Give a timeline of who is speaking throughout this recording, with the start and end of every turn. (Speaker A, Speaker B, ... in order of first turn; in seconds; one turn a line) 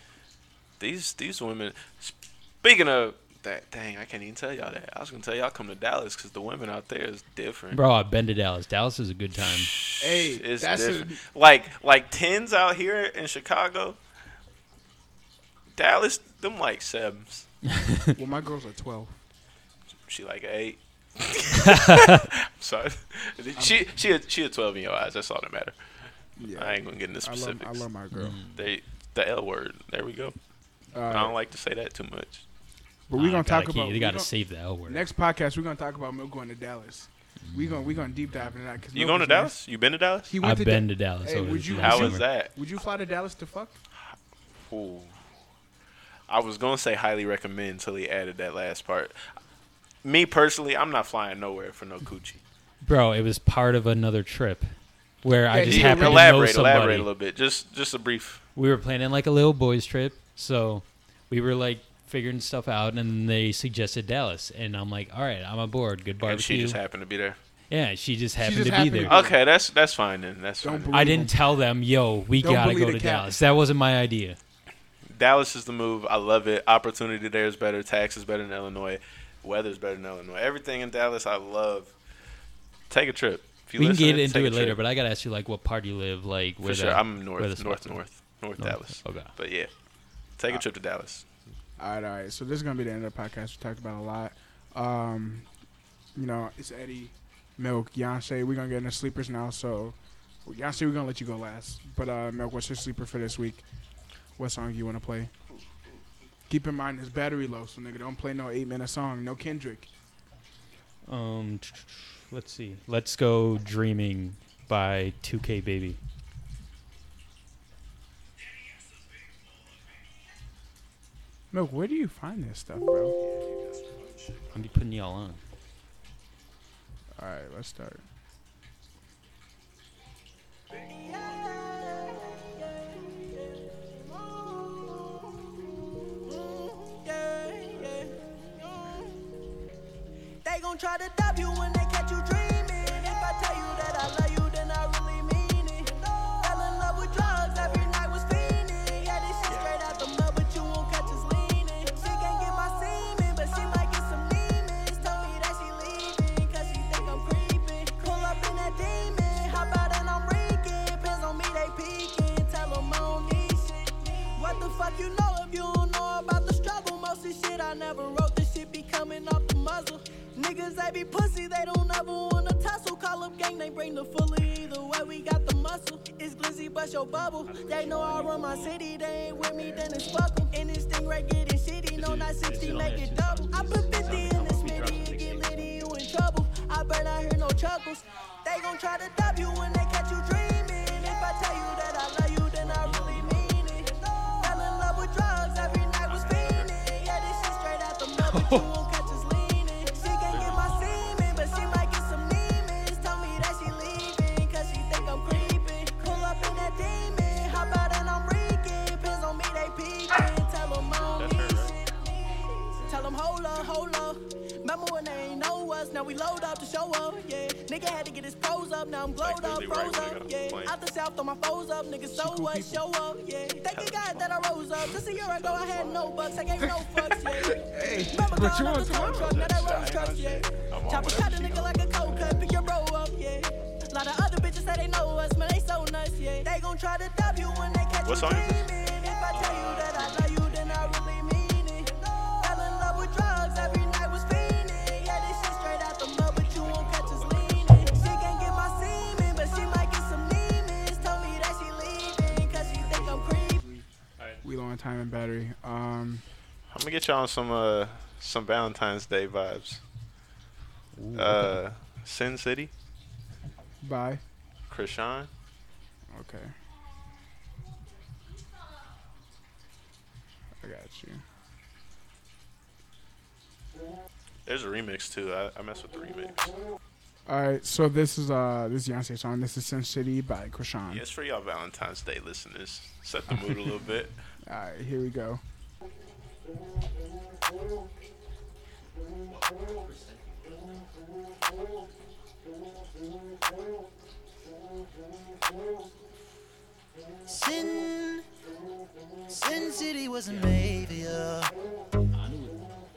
Speaker A: 0.8-7.8
Speaker B: 7.7-9.7
Speaker A: 9.4-14.0
Speaker C: 10.0-11.2
Speaker A: 15.8-17.5
Speaker B: 17.7-18.1
Speaker C: 18.1-19.1
Speaker A: 20.1-25.8
Speaker B: 21.8-22.2
Speaker C: 26.4-28.4
Speaker A: 26.5-27.9
Speaker B: 28.1-28.7
Speaker A: 28.6-30.4
Speaker C: 30.9-31.4
Speaker A: 31.1-32.5
Speaker C: 33.1-34.3
Speaker B: 33.1-35.1
Speaker C: 34.9-39.5
Speaker B: 37.4-38.3
Speaker A: 38.9-40.3
Speaker C: 40.3-43.8
Speaker B: 40.4-42.3
Speaker A: 41.8-42.5
Speaker A: 44.0-45.2
Speaker A: 46.3-49.2
Speaker A: 50.0-52.4
Speaker B: 52.8-54.7
Speaker B: 55.2-57.1
Speaker C: 55.5-56.3
Speaker A: 55.6-58.4
Speaker B: 58.6-66.8
Speaker A: 66.2-67.4
Speaker B: 67.7-69.2
Speaker C: 68.4-69.4
Speaker A: 69.1-71.1
Speaker C: 70.6-71.3
Speaker B: 70.9-74.4
Speaker C: 72.4-73.3
Speaker A: 75.1-81.9
Speaker A: 82.9-84.8
Speaker B: 83.8-89.3
Speaker A: 86.6-89.7
Speaker A: 90.4-91.2
Speaker C: 91.8-95.5
Speaker C: 96.2-103.6
Speaker C: 104.4-105.3
Speaker A: 105.5-106.1
Speaker C: 106.5-109.9
Speaker B: 111.1-116.0
Speaker C: 121.5-123.2
Speaker A: 123.2-124.6
Speaker B: 124.5-125.4
Speaker C: 127.2-128.0
Speaker D: 130.7-139.2
Speaker D: 140.4-253.6
Speaker A: 149.5-150.0
Speaker B: 177.2-178.6
Speaker C: 179.6-179.8
Speaker B: 181.9-185.9
Speaker B: 192.7-193.7
Speaker A: 196.1-196.7
Speaker B: 198.2-198.7
Speaker A: 200.3-201.0
Speaker A: 211.1-211.8
Speaker C: 212.8-213.1
Speaker A: 219.2-220.8
Speaker C: 222.1-222.8
Speaker A: 223.7-226.4
Speaker C: 227.4-229.3
Speaker A: 229.0-232.7
Speaker A: 238.1-238.7
Speaker B: 239.3-241.0
Speaker A: 246.6-247.9
Speaker C: 252.2-253.9
Speaker C: 254.4-256.2
Speaker A: 256.7-259.8
Speaker B: 260.9-261.6
Speaker A: 261.1-262.7
Speaker C: 263.8-264.2
Speaker A: 264.7-265.3
Speaker C: 266.1-266.5
Speaker C: 270.6-271.2
Speaker A: 274.5-276.5
Speaker C: 277.3-281.0
Speaker A: 280.9-284.2
Speaker C: 284.5-285.4
Speaker E: 297.3-298.3
Speaker E: 299.3-301.5
Speaker B: 300.3-301.0
Speaker B: 302.1-302.7